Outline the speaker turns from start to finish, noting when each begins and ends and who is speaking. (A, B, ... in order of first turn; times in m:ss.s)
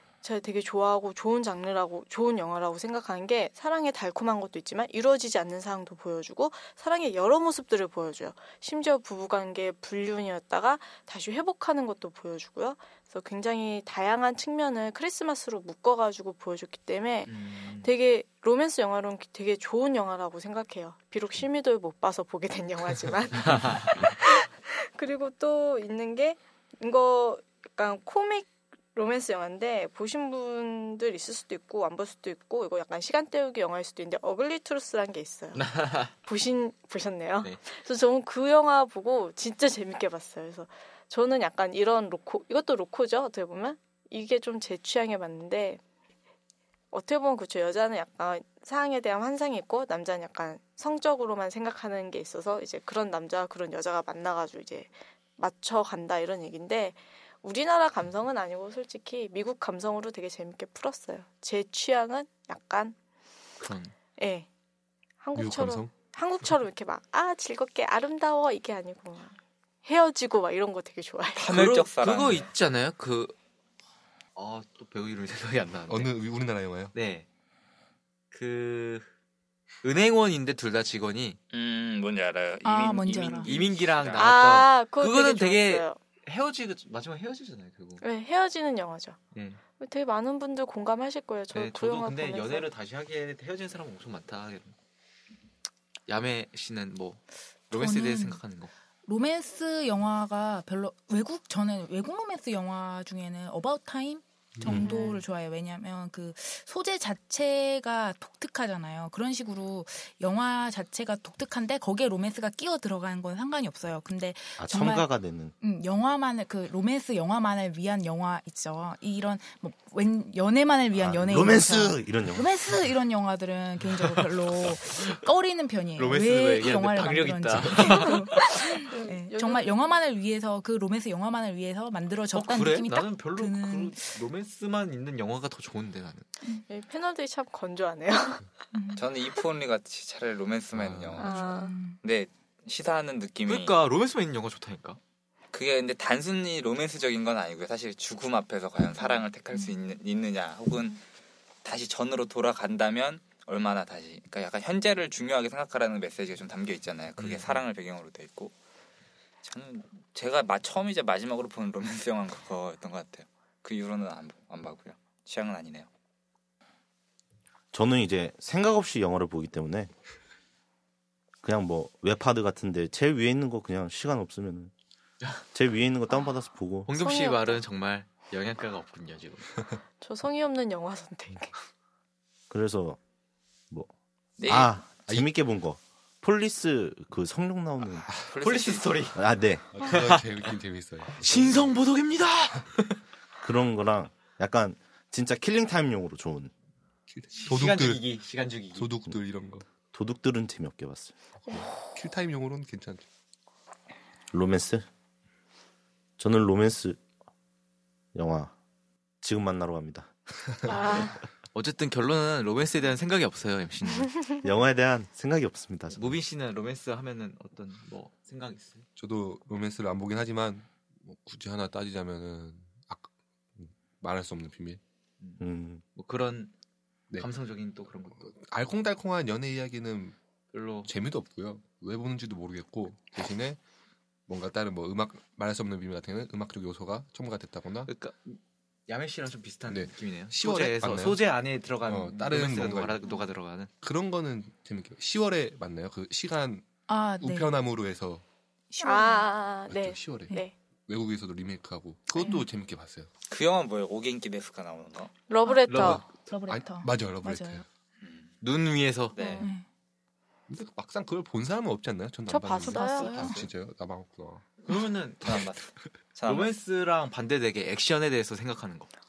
0:00.2-0:45.8 A
0:17.3-0:17.9 B
0:23.4-0:23.9 B
0:35.5-0:36.1 B
0:46.9-1:03.0 A
1:03.6-1:03.9 B
1:04.2-1:04.5 A
1:05.2-1:11.5 A
1:05.3-1:05.9 C
1:11.4-1:12.5 D
1:11.4-1:13.3 B
1:14.4-1:16.1 B
1:15.9-1:16.9 C
1:16.9-1:17.2 B
1:18.3-1:19.1 B
1:19.8-1:21.4 B
1:21.5-1:24.3 D
1:22.6-1:23.6 E
1:23.4-1:28.0 B
1:24.2-1:26.0 A
1:28.0-1:29.2 A
1:29.3-1:29.6 B
1:29.8-1:32.7 A
1:31.5-1:34.7 B
1:36.1-1:38.7 B
1:37.7-1:38.4 E
1:39.0-1:55.1 E
1:44.7-1:45.2 A
1:44.8-1:45.1 B
1:54.6-1:55.5 F
1:55.6-2:14.2 E
2:00.9-2:02.5 F
2:03.8-2:05.2 B
2:06.0-2:08.8 B
2:08.4-2:09.8 A
2:12.3-2:16.3 B
2:16.7-2:18.5 A
2:18.7-2:19.0 E
2:19.0-2:23.7 D
2:20.7-2:21.2 C
2:21.2-2:21.7 A
2:21.2-2:22.0 E
2:23.4-2:25.0 B
2:25.5-2:31.0 D
2:31.6-2:38.5 D
2:37.2-2:37.6 B
2:39.4-2:45.9 D
2:47.7-2:49.9 F
2:51.4-2:54.7 F
2:55.5-2:56.9 F
2:56.8-2:59.6 B
2:57.0-2:57.6 A
3:00.0-3:01.6 A
3:02.5-3:03.0 F
3:04.4-3:04.7 D
3:04.5-3:08.1 F
3:08.0-3:08.3 C
3:08.3-3:09.1 D
3:08.4-3:09.2 B
3:09.1-3:09.8 F
3:09.7-3:11.7 C
3:09.8-3:10.5 B
3:11.2-3:13.0 B
3:13.4-3:16.5 F
3:17.1-3:18.0 C
3:17.4-3:18.9 B
3:18.8-3:19.6 C
3:19.9-3:21.6 F
3:21.9-3:23.0 C
3:24.3-3:24.8 F
3:26.2-3:27.0 F
3:28.1-3:28.5 F
3:29.2-3:30.1 F
3:30.6-3:31.2 A
3:31.5-3:34.2 B
3:34.4-3:36.1 F
3:35.9-3:38.8 B
3:39.0-3:44.8 C
3:45.4-3:45.8 F
3:46.0-3:46.5 B
3:47.2-3:48.3 B
3:48.2-3:50.2 C
3:50.5-3:50.9 B
3:50.8-3:53.6 C
3:54.3-3:57.9 C
3:57.9-4:03.7 B
3:59.7-4:01.2 C
4:01.8-4:03.1 C
4:03.8-4:06.6 C
4:06.9-4:07.5 E
4:07.2-4:08.2 C
4:08.7-4:09.3 E
4:08.8-4:10.5 A
4:09.7-4:10.3 C
4:10.9-4:13.1 C
4:12.2-4:12.4 E
4:13.3-4:15.1 D
4:15.3-4:16.0 A
4:15.4-4:17.6 E
4:15.7-4:16.3 B
4:15.7-4:17.6 C
4:18.0-4:18.3 D
4:18.4-4:19.4 B
4:19.1-4:19.5 D
4:19.2-4:19.5 A
4:19.4-4:19.6 E
4:20.5-4:24.5 C
4:22.3-4:23.3 A
4:22.6-4:23.4 E
4:23.0-4:23.5 B
4:24.7-4:25.5 B
4:24.7-4:26.5 D
4:26.2-4:28.9 B